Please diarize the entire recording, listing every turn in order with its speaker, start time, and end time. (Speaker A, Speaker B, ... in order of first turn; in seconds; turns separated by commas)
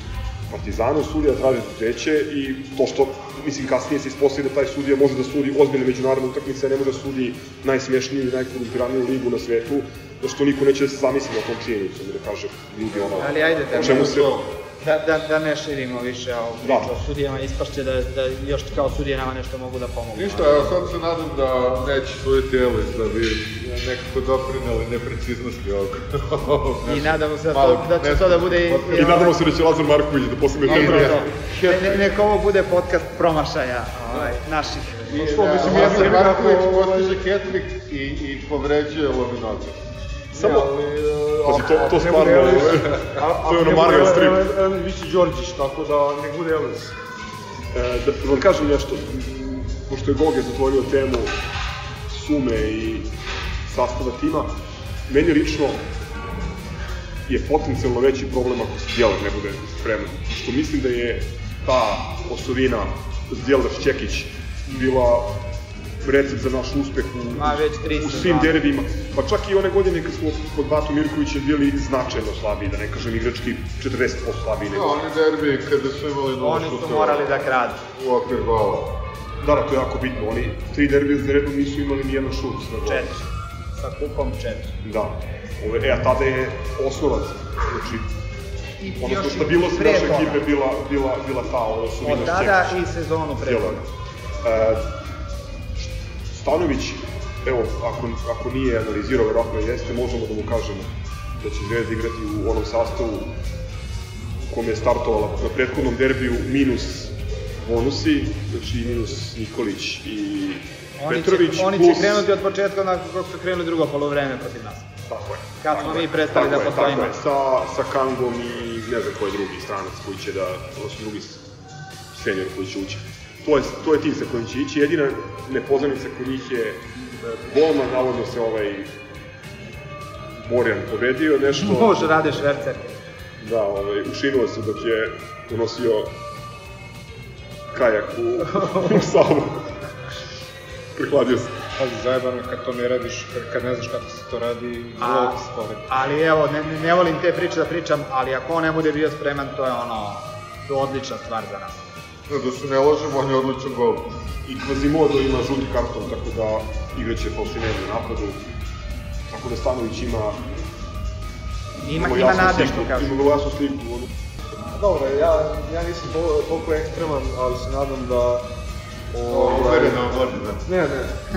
Speaker A: 0.5-14.4, Speaker B: 13.2-20.8, Speaker C: 13.7-14.4, Speaker A: 16.6-16.9, Speaker C: 20.1-29.3, Speaker B: 26.8-29.4, Speaker A: 28.9-31.3, Speaker C: 30.6-32.0, Speaker B: 30.6-36.3, Speaker D: 35.1-37.2, Speaker C: 35.1-39.8, Speaker D: 40.3-46.9, Speaker A: 40.3-40.7, Speaker A: 41.4-44.5, Speaker A: 47.7-51.4, Speaker A: 52.0-53.1, Speaker A: 53.6-54.5, Speaker A: 55.1-55.9, Speaker A: 57.3-65.4, Speaker A: 66.0-75.0, Speaker B: 67.3-68.6, Speaker C: 74.7-77.4, Speaker B: 76.4-77.8, Speaker C: 77.9-79.0, Speaker A: 79.4-83.1, Speaker B: 82.8-84.8, Speaker A: 84.8-88.2, Speaker B: 88.8-90.5, Speaker A: 89.0-93.8, Speaker B: 92.0-93.9, Speaker A: 94.4-94.9, Speaker A: 96.3-103.3, Speaker A: 104.4-112.3, Speaker B: 111.0-114.9, Speaker A: 115.1-121.4, Speaker B: 115.6-117.2, Speaker A: 122.1-128.9, Speaker A: 130.4-132.3, Speaker B: 131.6-132.9, Speaker A: 133.4-136.2, Speaker A: 137.7-139.7, Speaker A: 140.9-141.6, Speaker E: 141.8-145.9, Speaker B: 145.0-151.8, Speaker C: 152.3-154.1, Speaker A: 154.4-158.5, Speaker A: 159.3-160.4, Speaker B: 161.8-163.2, Speaker A: 161.9-164.1, Speaker D: 164.7-168.5, Speaker D: 169.1-171.2, Speaker C: 169.3-170.7